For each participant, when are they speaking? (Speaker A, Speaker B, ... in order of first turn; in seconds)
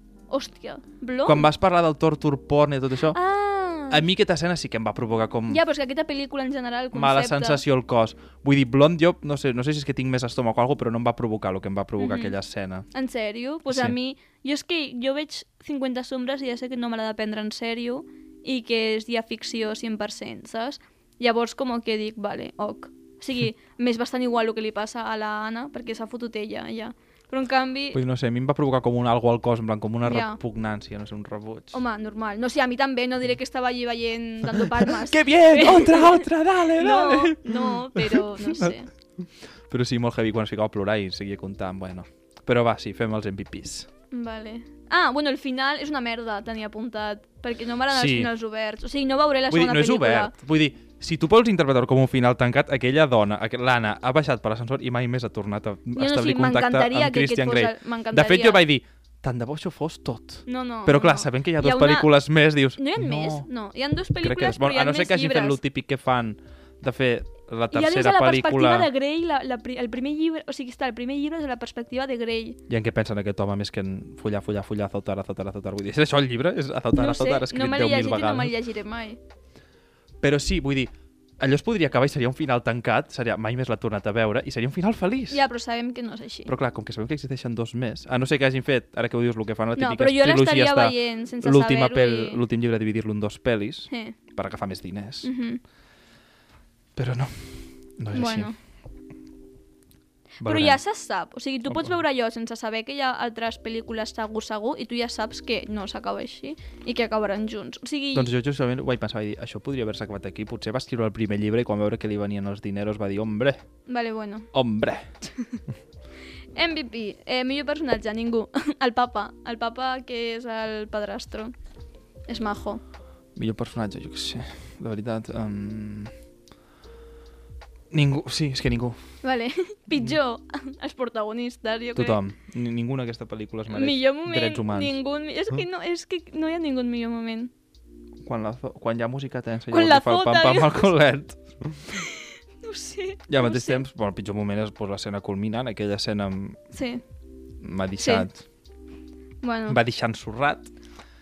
Speaker A: 0.3-1.5, 3.1-4.0, 5.5-7.6, 12.0-12.3, 12.9-28.0, 30.0-30.4, 31.7-38.9, 44.1-50.3, 55.9-58.6, 60.5-62.1, 62.8-65.6, 67.7-72.6, 76.9-79.2, 85.3-86.5, 89.8-92.4, 93.9-94.2, 95.2-95.6, 98.1-98.5, 100.4-108.3, 113.9-114.5, 116.5-121.5, 122.3-122.8, 129.2-132.2, 133.7-137.5, 139.7-140.9, 141.9-143.8, 146.7-147.0, 148.0-148.3, 149.4-149.8
Speaker B: 1.2-3.2, 3.9-5.6, 6.9-12.8, 13.7-13.9, 27.9-31.8, 34.6-38.7, 39.7-43.9, 47.9-48.3, 49.5-63.5, 64.2-68.9, 72.7-78.5, 80.2-85.5, 86.5-95.3, 97.0-98.5, 100.4-100.8, 101.7-102.0, 108.1-113.6, 114.5-115.0, 123.3-126.1, 127.9-129.0, 131.9-135.0, 138.2-142.0, 143.3-146.6, 147.6-148.4, 149.7-150.7